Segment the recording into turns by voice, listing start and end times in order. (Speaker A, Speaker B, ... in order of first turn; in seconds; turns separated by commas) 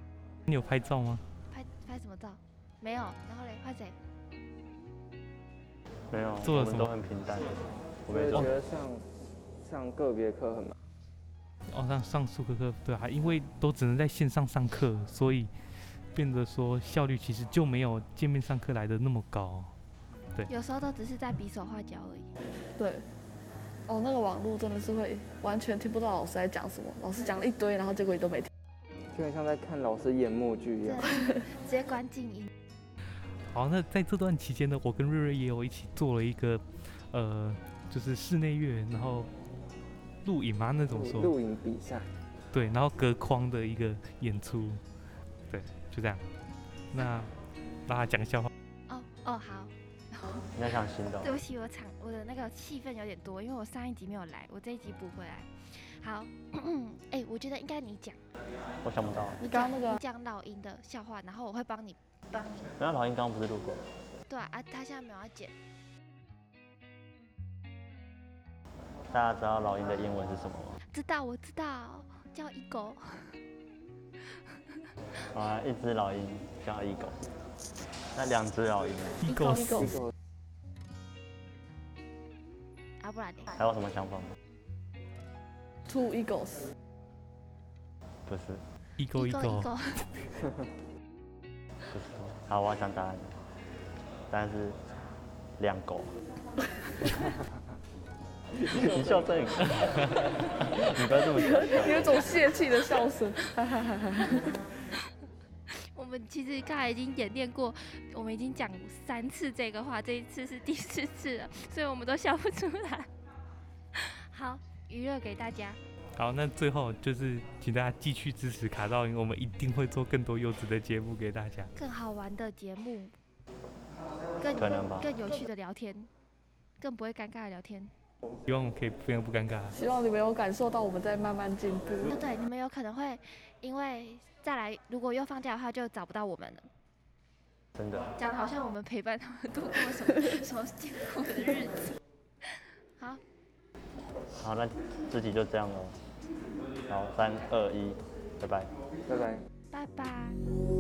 Speaker A: 0.5-1.2, Speaker B: 1.5-4.0, Speaker C: 6.1-7.5, Speaker A: 6.4-6.9, Speaker C: 8.1-8.5, Speaker D: 8.1-9.1, Speaker D: 9.6-10.8, Speaker A: 11.7-15.5, Speaker A: 16.1-19.7, Speaker B: 20.5-22.3, Speaker E: 22.8-23.0, Speaker E: 23.9-28.5, Speaker D: 29.1-31.1, Speaker B: 30.8-32.5, Speaker A: 33.5-39.3, Speaker A: 40.2-41.4, Speaker D: 40.9-42.1, Speaker A: 42.5-44.8, Speaker A: 45.5-46.3, Speaker A: 46.9-47.3, Speaker A: 47.9-48.5, Speaker B: 48.9-50.6, Speaker C: 50.6-51.4, Speaker B: 51.2-58.2, Speaker C: 58.8-59.4, Speaker E: 59.4-60.0, Speaker B: 59.4-62.7, Speaker C: 62.8-63.8, Speaker B: 64.3-65.5, Speaker C: 69.1-70.8, Speaker B: 70.9-73.4, Speaker C: 75.3-77.2, Speaker C: 78.2-79.4, Speaker A: 79.2-80.0, Speaker E: 79.3-80.0, Speaker D: 79.8-80.1, Speaker B: 83.0-83.6, Speaker C: 83.5-84.3, Speaker E: 85.9-86.7, Speaker C: 88.3-88.6, Speaker A: 89.0-89.7, Speaker B: 89.1-90.1, Speaker C: 91.9-93.4, Speaker C: 94.3-94.8, Speaker C: 95.6-96.1, Speaker C: 98.6-102.4, Speaker E: 101.3-104.5, Speaker B: 105.7-113.1, Speaker B: 113.9-115.8, Speaker A: 116.2-121.7, Speaker B: 121.8-123.2, Speaker B: 124.4-126.1, Speaker C: 124.5-125.1, Speaker B: 126.8-127.9, Speaker A: 128.5-129.8, Speaker E: 129.7-132.2, Speaker B: 132.0-136.7, Speaker C: 137.8-138.1, Speaker B: 138.2-143.2, Speaker C: 144.4-146.0, Speaker C: 146.9-148.7, Speaker D: 149.1-149.5, Speaker B: 149.7-150.4